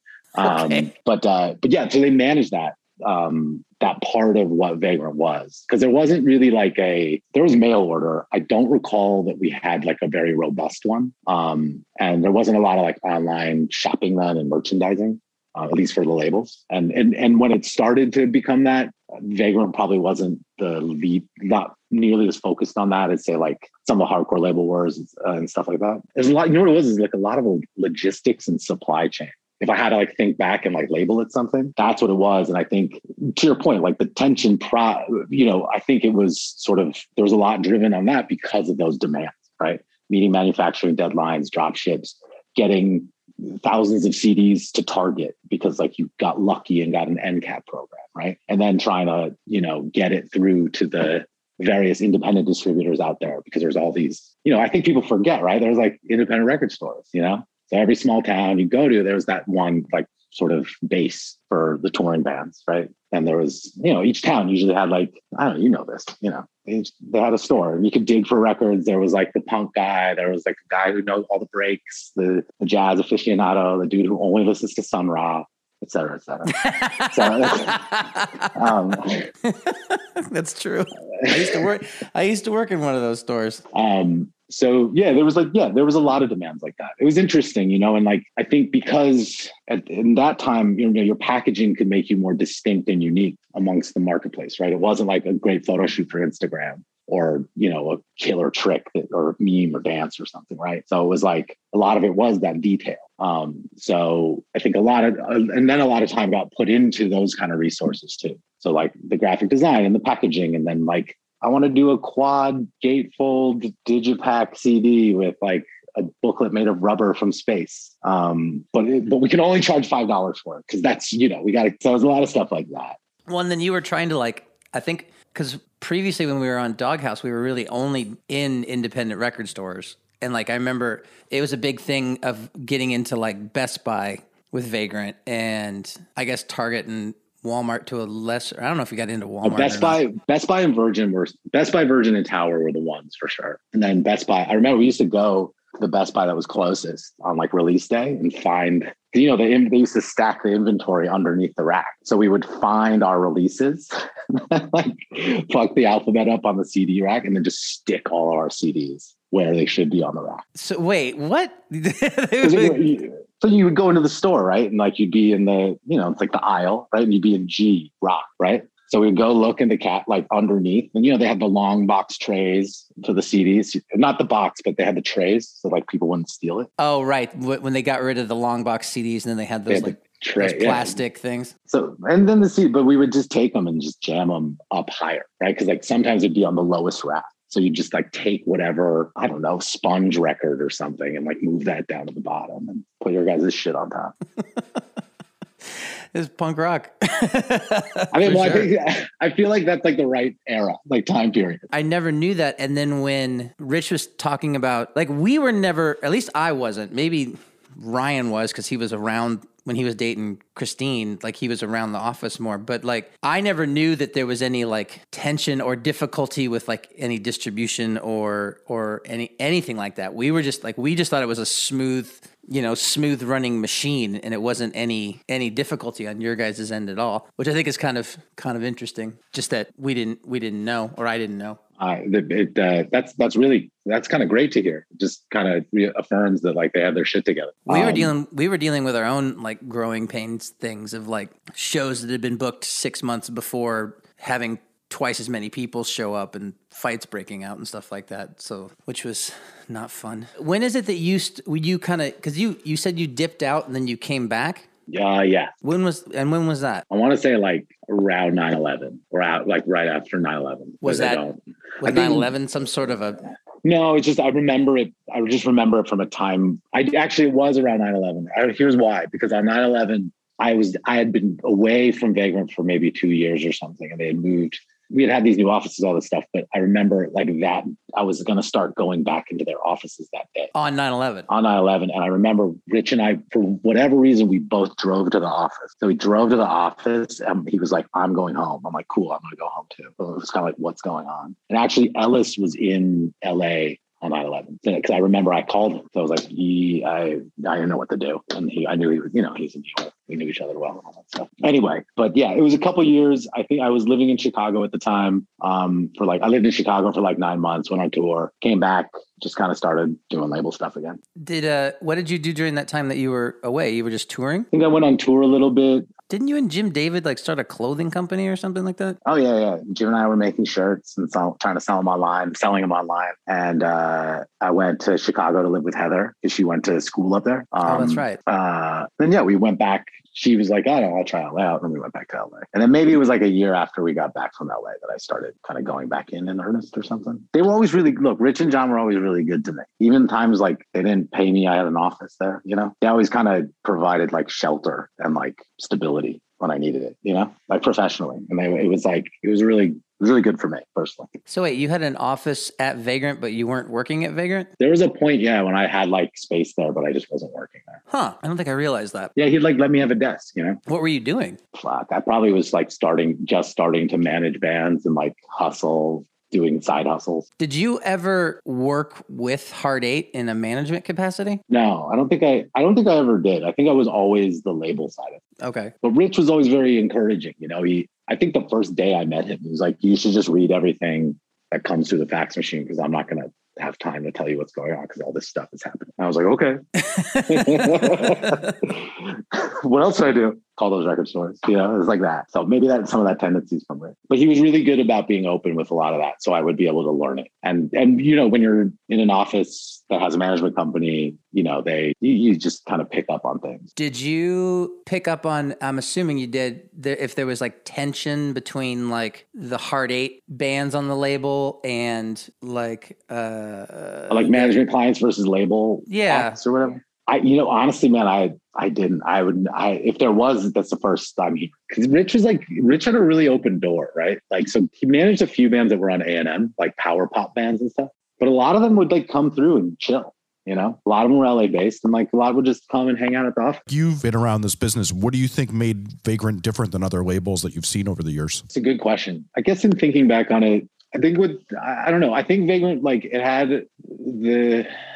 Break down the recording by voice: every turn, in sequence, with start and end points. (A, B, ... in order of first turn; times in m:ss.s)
0:00.3-1:16.6 A
0:00.4-0:00.9 B
1:16.5-1:18.6 B
1:17.1-1:17.8 A
1:18.6-1:19.3 A
1:19.4-1:23.6 B
1:21.2-1:21.6 A
1:23.7-2:03.0 A
2:03.3-2:20.0 B
2:19.4-2:40.4 A
2:40.6-2:42.8 B
2:42.4-2:56.7 A
2:56.8-3:01.5 B
2:59.7-3:01.0 A
3:01.7-3:14.1 A
3:14.4-3:14.8 B
3:15.6-3:18.7 B
3:18.1-3:21.6 A
3:21.7-3:51.6 B
3:51.8-3:58.1 A
3:57.7-4:14.6 B
4:14.9-4:15.5 A
4:15.6-4:16.8 B
4:16.9-4:22.3 A
4:20.8-4:21.2 B
4:21.8-4:23.2 B
4:23.6-4:40.5 A
4:40.5-4:41.3 B
4:41.3-5:11.0 A
5:11.2-5:14.5 B
5:14.5-5:15.9 A
5:16.1-5:19.0 B
5:19.0-5:51.1 A
5:27.6-5:28.2 B
5:51.3-5:54.5 B
5:54.6-5:57.8 A
5:57.9-5:59.1 B
5:59.2-6:00.6 A
6:00.7-6:01.4 B
6:01.5-6:07.2 A
6:07.4-6:11.4 B
6:11.5-6:15.2 A
6:15.4-6:15.7 B
6:15.8-6:26.6 A
6:26.8-6:28.6 B
6:27.2-6:43.7 A
6:43.8-6:54.5 B
6:54.1-7:13.6 A
6:55.9-6:56.4 B
7:13.7-7:18.4 C
7:18.5-7:24.7 A